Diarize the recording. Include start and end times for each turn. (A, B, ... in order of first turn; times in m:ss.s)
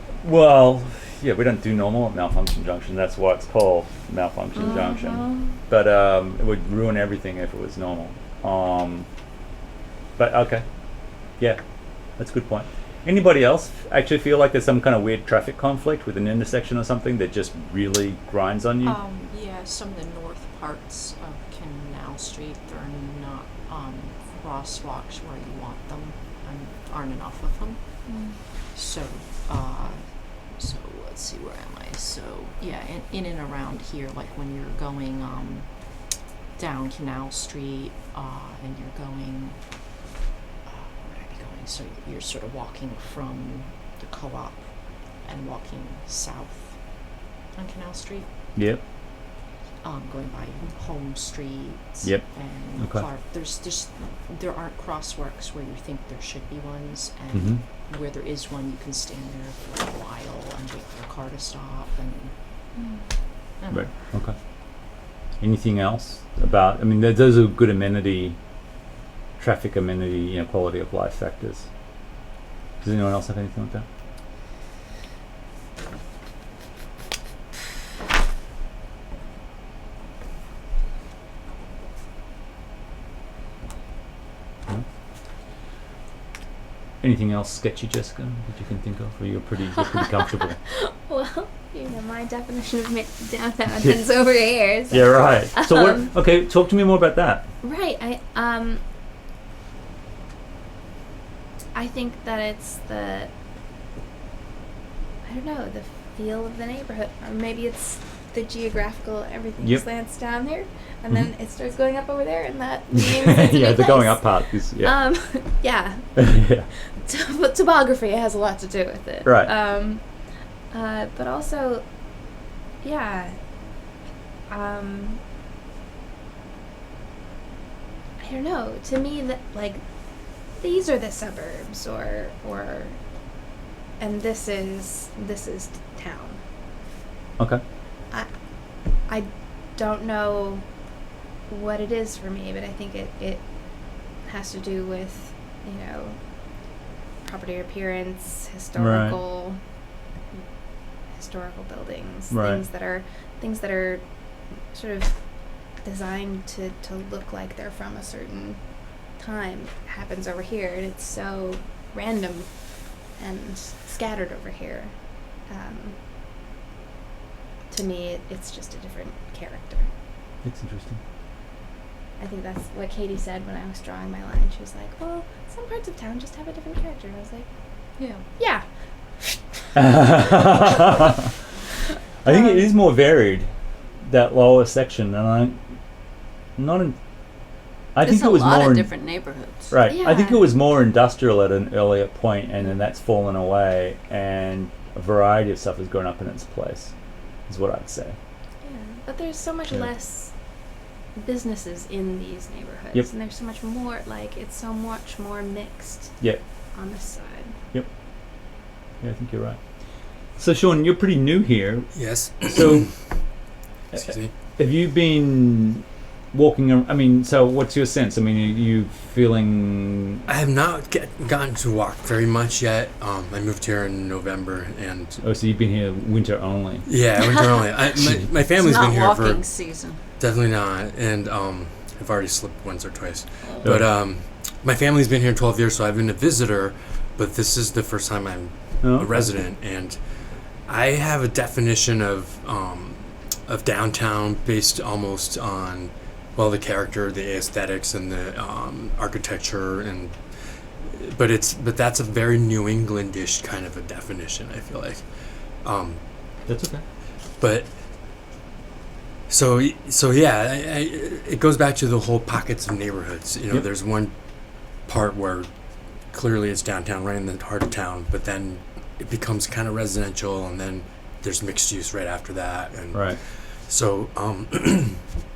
0:00.2-0:09.1 A
0:04.6-0:05.5 B
0:10.2-0:10.6 A
0:12.2-0:19.0 A
0:18.8-0:27.8 C
0:28.1-0:28.4 B
0:28.7-0:35.7 C
0:36.6-0:39.6 C
0:40.7-0:46.8 C
0:47.5-0:48.3 C
0:48.6-0:48.8 A
0:49.8-1:02.3 C
0:52.0-0:53.1 A
0:57.3-0:57.6 A
1:02.8-1:03.0 B
1:03.6-1:03.9 C
1:03.7-1:04.4 A
1:05.4-1:08.4 A
1:09.4-1:11.7 A
1:12.8-1:13.9 A
1:27.0-1:30.6 A
1:30.7-1:36.1 B
1:34.9-1:37.5 A
1:37.6-1:38.8 B
1:41.8-1:43.3 B
1:45.2-1:56.2 B
1:53.0-1:55.0 A
1:56.2-1:56.7 A
1:57.0-2:00.0 B
1:59.2-1:59.5 A
2:00.7-2:01.8 B
2:02.8-2:03.4 B
2:04.5-2:05.2 B
2:08.2-2:09.8 B
2:10.6-2:13.0 B
2:14.0-2:16.4 B
2:19.1-2:20.6 B
2:21.5-2:23.5 B
2:24.2-2:26.2 B
2:27.2-2:29.6 B
2:28.8-2:29.2 A
2:31.1-2:34.0 B
2:32.3-2:32.6 A
2:34.7-2:35.2 B
2:35.8-2:38.6 B
2:39.1-2:42.6 B
2:43.1-2:46.0 B
2:47.7-2:49.9 B
2:50.4-2:51.0 A
2:52.2-2:57.5 B
2:58.0-2:58.3 C
2:58.4-2:58.6 B
2:59.8-3:01.3 A
3:02.2-3:03.5 A
3:02.2-3:02.7 B
3:04.0-3:05.6 A
3:06.6-3:07.0 A
3:08.0-3:08.9 A
3:08.0-3:09.7 D
3:09.7-3:16.9 A
3:09.9-3:10.6 B
3:17.5-3:18.2 A
3:18.6-3:20.3 B
3:21.2-3:26.2 B
3:26.8-3:27.6 B
3:29.0-3:29.6 A
3:30.4-3:32.9 A
3:31.9-3:32.9 E
3:33.9-3:34.3 E
3:33.9-3:40.2 A
3:40.3-3:45.2 E
3:45.2-3:46.9 A
3:46.9-3:49.5 E
3:48.5-3:50.0 D
3:50.2-4:16.0 E
3:53.6-3:54.0 A
3:58.8-3:59.3 A
4:16.5-4:16.8 A
4:17.4-4:17.7 E
4:19.3-4:24.1 E
4:24.9-4:25.5 E
4:26.1-4:35.1 E
4:32.9-4:33.2 A